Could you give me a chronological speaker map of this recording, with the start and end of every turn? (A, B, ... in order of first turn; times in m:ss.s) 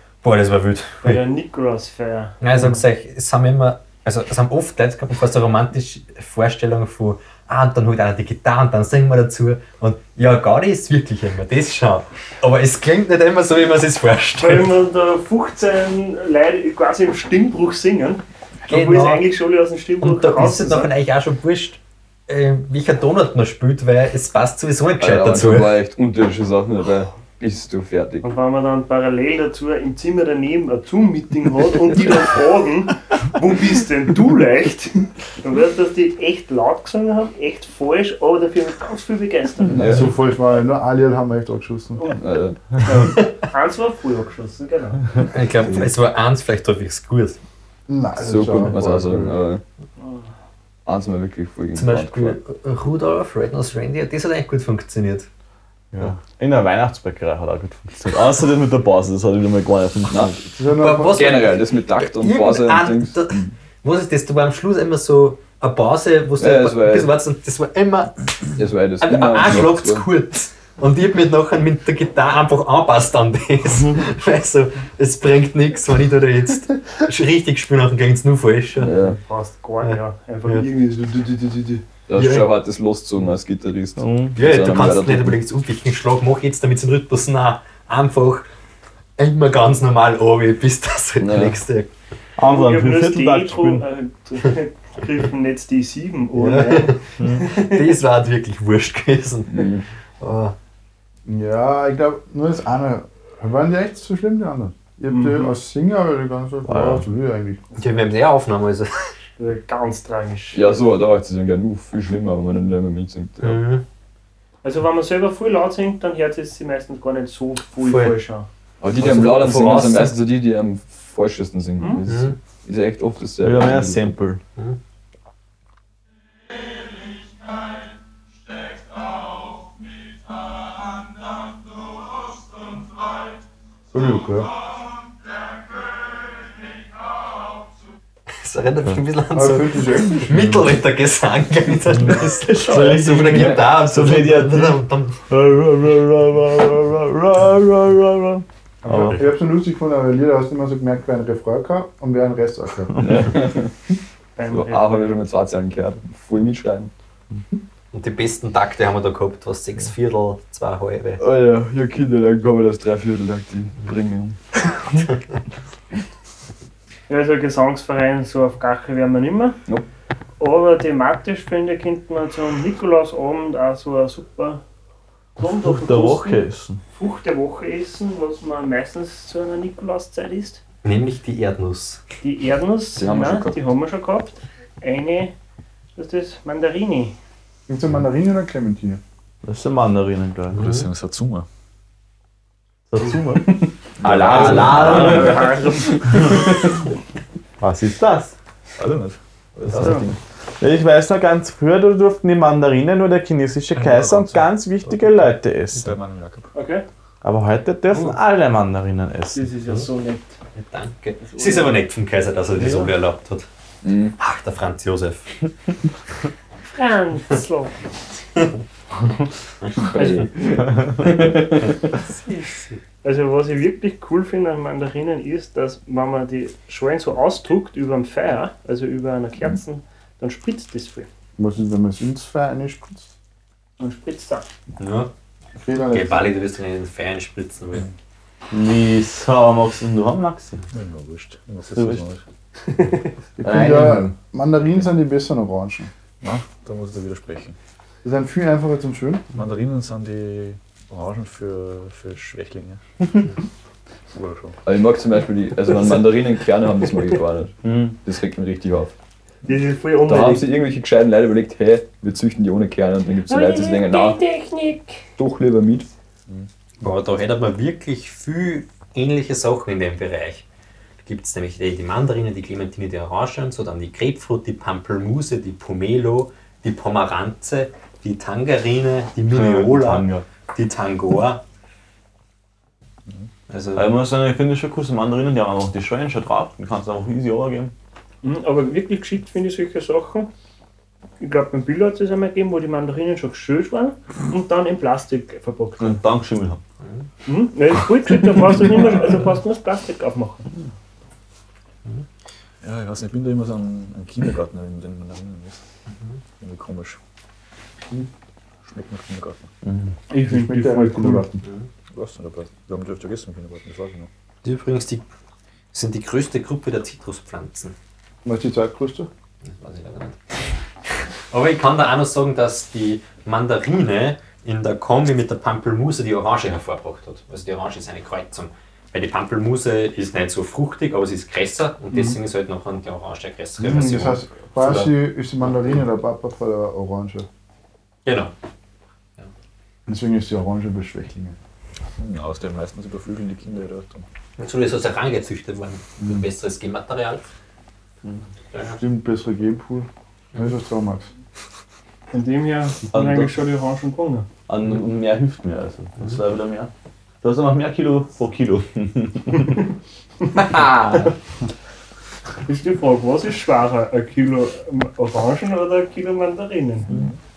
0:00.2-0:01.2 A
0:01.0-0:02.7 B
0:02.4-0:14.7 A
0:14.4-0:20.9 B
0:18.7-0:19.2 A
0:20.0-0:25.8 A
0:25.0-0:28.3 C
0:28.2-0:40.0 B
0:39.7-0:40.1 C
0:39.7-0:42.2 D
0:42.1-0:42.8 C
0:42.8-0:45.2 B
0:45.3-0:47.4 A
0:47.9-0:49.4 D
0:48.2-0:49.6 C
0:50.0-0:50.3 B
0:50.9-0:52.4 C
0:51.8-0:55.3 A
0:55.9-1:00.4 E
1:00.1-1:00.5 C
1:00.6-1:01.3 D
1:00.8-1:08.3 A
1:01.0-1:03.5 C
1:06.4-1:07.1 C
1:08.6-1:10.1 C
1:09.0-1:19.1 A
1:13.8-1:14.0 E
1:18.8-1:19.2 C
1:19.1-1:21.8 B
1:19.8-1:20.7 A
1:22.1-1:25.4 C
1:22.2-1:22.5 A
1:24.0-1:24.4 E
1:24.4-1:28.5 A
1:29.2-1:31.9 A
1:31.2-1:31.6 C
1:32.4-1:33.8 E
1:32.5-1:37.9 B
1:36.3-1:40.5 A
1:37.2-1:37.4 E
1:39.5-1:39.8 C
1:41.3-1:47.6 D
1:45.1-1:45.5 B
1:46.6-1:47.1 E
1:47.8-1:49.1 A
1:49.4-1:50.6 B
1:50.5-1:53.6 C
1:53.4-1:53.8 A
1:54.6-1:58.5 B
1:57.8-1:58.2 A
1:58.8-2:04.1 C
1:58.9-2:00.2 A
2:01.8-2:02.0 B
2:02.0-2:02.4 A
2:03.4-2:04.4 E
2:13.9-2:14.5 D
2:18.4-2:25.2 A
2:19.3-2:20.7 D
2:22.5-2:29.2 E
2:23.3-2:23.6 C
2:28.8-2:33.2 D
2:33.0-2:33.3 E
2:33.0-2:33.7 C
2:34.4-2:35.2 B
2:34.5-2:36.9 C
2:37.9-2:41.2 A
2:41.2-2:44.6 C
2:47.1-2:49.6 B
2:50.4-2:54.6 B
2:55.4-2:56.4 B
2:55.4-2:56.8 E
2:57.0-3:00.6 B
3:00.8-3:02.0 A
3:02.2-3:05.3 B
3:03.0-3:03.7 C
3:06.0-3:07.2 B
3:07.7-3:09.0 D
3:09.4-3:10.7 E
3:10.5-3:10.9 A
3:10.5-3:11.5 F
3:12.9-3:15.5 E
3:14.0-3:15.3 C
3:14.0-3:15.4 A
3:14.2-3:14.5 F
3:14.9-3:16.5 B
3:17.6-3:18.4 E
3:18.8-3:19.2 F
3:19.7-3:20.0 E
3:19.8-3:20.1 B
3:20.6-3:26.0 E
3:23.8-3:26.5 F
3:26.5-3:26.8 B
3:27.2-3:29.5 E
3:29.3-3:30.4 B
3:30.5-3:33.5 A
3:31.3-3:31.7 B
3:32.6-3:32.9 E
3:33.8-3:34.2 C
3:34.2-3:35.3 A
3:36.8-3:37.8 B
3:39.8-3:41.5 C
3:42.0-3:42.8 A
3:43.0-3:51.1 B
3:51.4-3:53.1 D
3:53.8-3:54.4 B
3:54.8-3:55.1 A
3:55.6-3:56.3 D
3:55.8-3:57.9 A
3:58.5-4:00.6 E
4:00.7-4:02.2 F
4:01.8-4:02.0 E
4:03.4-4:05.9 D
4:03.4-4:04.1 E
4:06.2-4:07.5 F
4:08.0-4:09.3 D
4:09.3-4:12.8 F
4:14.1-4:14.6 F
4:14.6-4:18.9 C
4:17.6-4:18.0 E
4:19.4-4:20.5 B
4:20.1-4:24.2 C
4:23.3-4:25.1 B
4:25.2-4:25.9 C
4:26.8-4:30.4 A
4:31.0-4:41.4 A
4:39.3-4:40.2 E
4:43.5-4:43.9 A
4:43.8-4:47.7 E
4:48.2-4:50.3 B
4:51.2-4:56.0 B
4:55.8-4:56.6 E
4:57.3-5:00.5 B
5:02.6-5:05.6 F
5:06.4-5:07.0 F
5:08.6-5:09.5 F
5:09.6-5:09.9 E
5:10.1-5:11.3 B
5:10.2-5:11.4 D
5:11.4-5:11.7 A
5:11.9-5:14.1 F
5:14.4-5:15.1 A
5:15.7-5:17.8 A
5:18.2-5:19.1 D
5:19.4-5:20.2 A
5:21.3-5:35.0 A
5:31.9-5:32.2 B
5:33.6-5:37.3 D
5:38.0-5:38.3 A
5:39.9-5:41.4 D
5:42.0-5:44.0 F
5:44.4-5:47.3 A
5:48.5-5:48.8 A
5:48.6-5:51.1 D
5:52.1-5:54.3 B
5:52.9-5:53.5 E
5:54.5-5:56.7 E
5:57.2-5:59.6 E
6:00.3-6:01.2 A
6:02.5-6:06.9 B
6:06.9-6:07.2 F